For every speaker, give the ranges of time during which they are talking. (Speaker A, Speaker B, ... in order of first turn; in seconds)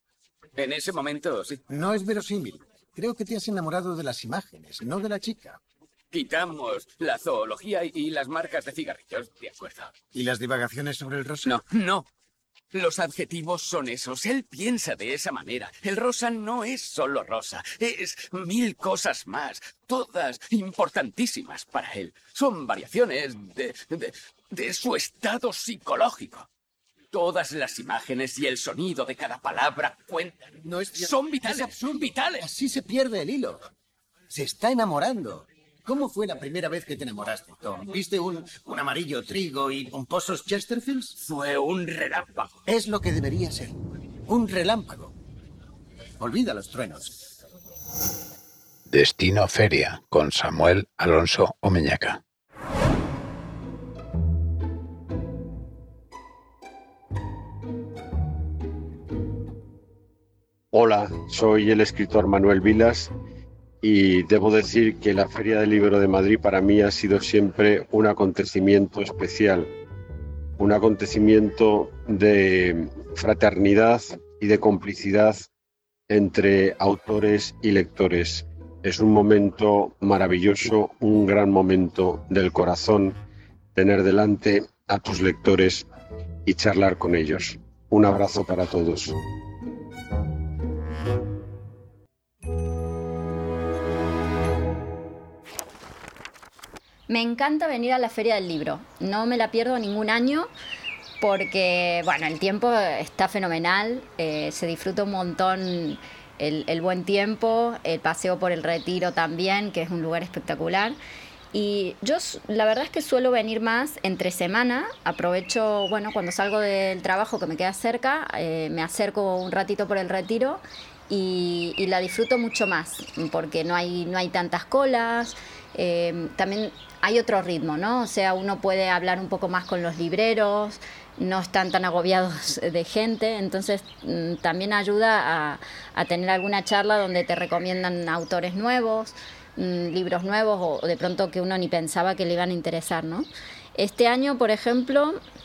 Speaker A: 0.6-1.6, 6.1-9.9, 11.4-12.1, 12.7-26.5, 27.1-32.5, 41.2-42.6
Speaker B: 1.7-5.6, 10.1-11.5, 30.6-33.6, 34.3-41.1, 42.7-45.1, 46.2-47.1
Speaker C: 48.9-52.2
Speaker D: 60.7-63.1, 63.8-69.7, 70.6-75.5, 76.1-83.2, 83.7-85.9, 86.5-89.2
Speaker E: 97.1-100.5, 101.2-111.0, 111.5-145.2